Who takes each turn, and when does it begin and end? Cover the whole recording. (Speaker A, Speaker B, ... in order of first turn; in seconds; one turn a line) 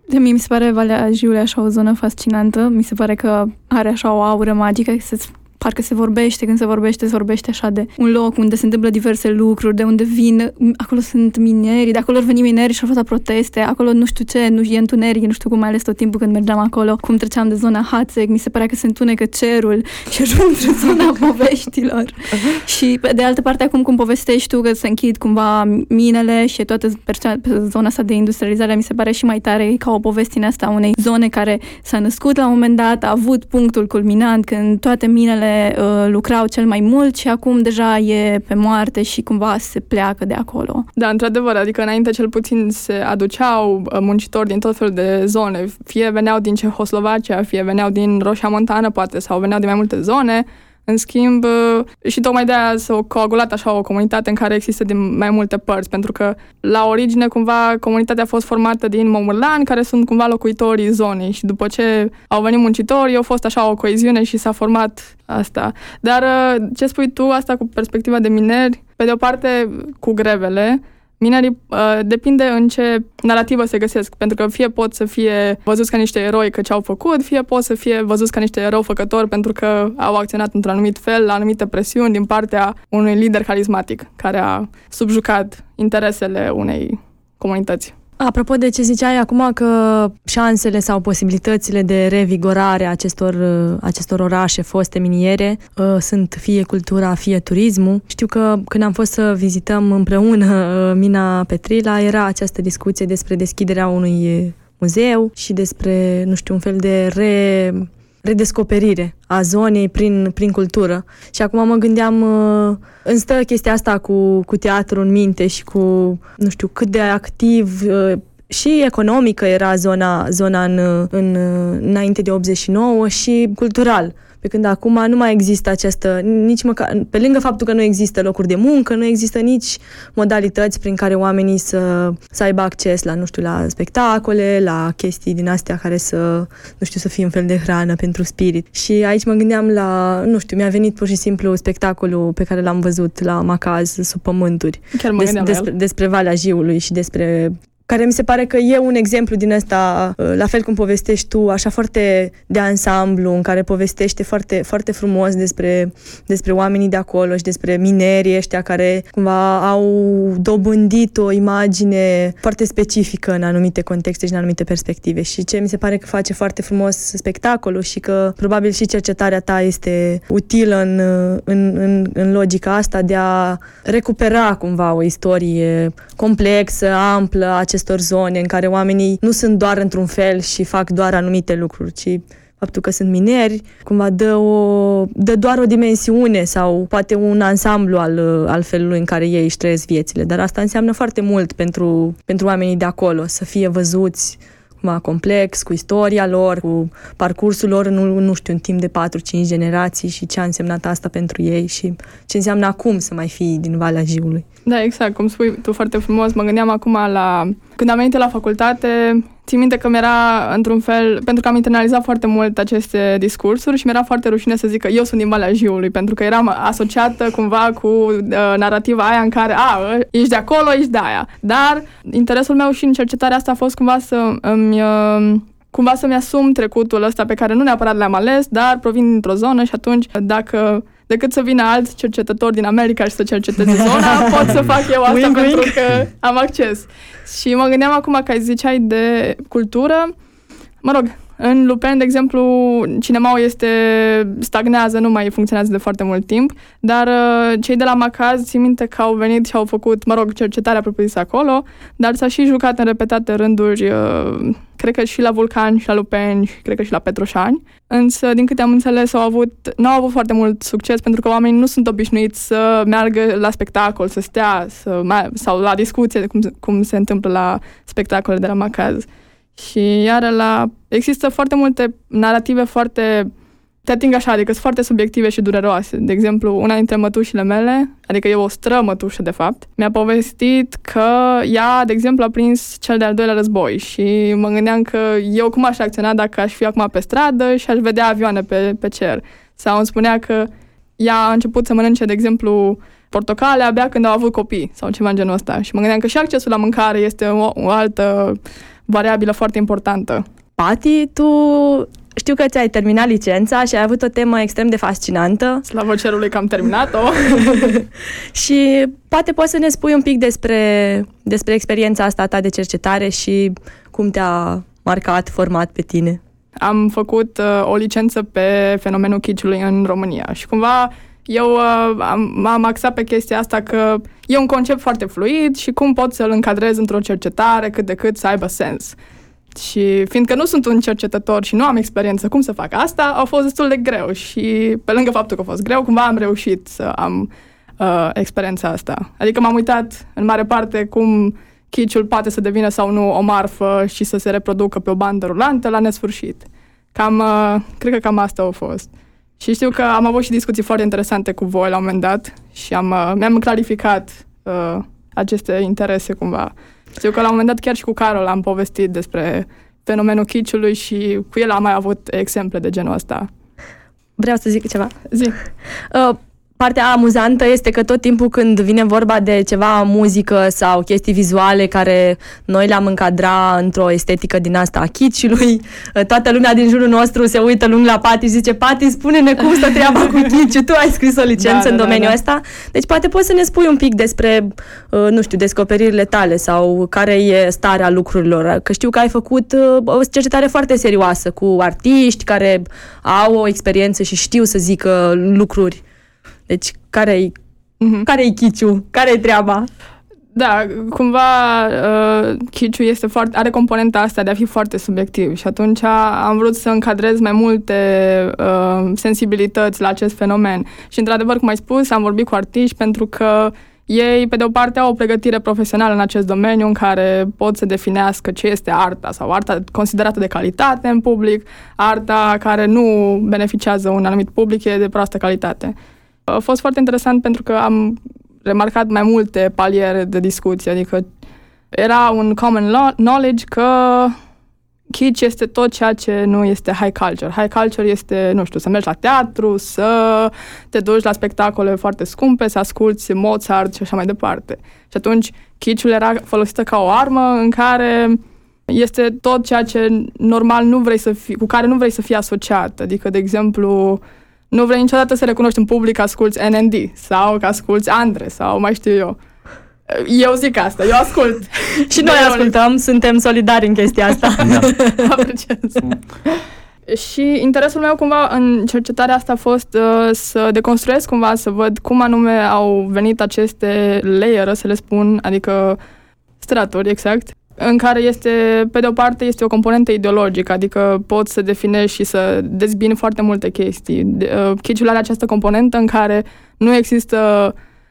Speaker A: 0.1-40.9
Speaker B: 41.0-88.0
Speaker C: 88.2-204.4
Speaker B: 144.9-145.7
Speaker B: 204.7-240.1
Speaker C: 233.9-234.5
Speaker C: 235.1-236.0
Speaker B: 240.8-273.3
Speaker B: 273.9-300.2
Speaker C: 300.6-305.6
Speaker B: 305.7-307.6
Speaker C: 307.4-307.8
Speaker C: 308.3-316.2
Speaker B: 316.6-329.0
Speaker B: 329.6-363.3
Speaker C: 364.2-365.0
Speaker C: 365.9-395.8
Speaker B: 381.4-382.1
Speaker C: 396.5-397.3
Speaker B: 397.8-398.1
Speaker C: 398.1-399.7
Speaker B: 400.4-425.8
Speaker B: 426.3-431.1
Speaker B: 431.7-434.2
Speaker B: 434.9-459.2
Speaker B: 459.9-462.5
Speaker C: 461.9-465.2
Speaker B: 464.4-465.9
Speaker B: 466.9-475.8
Speaker B: 476.4-487.6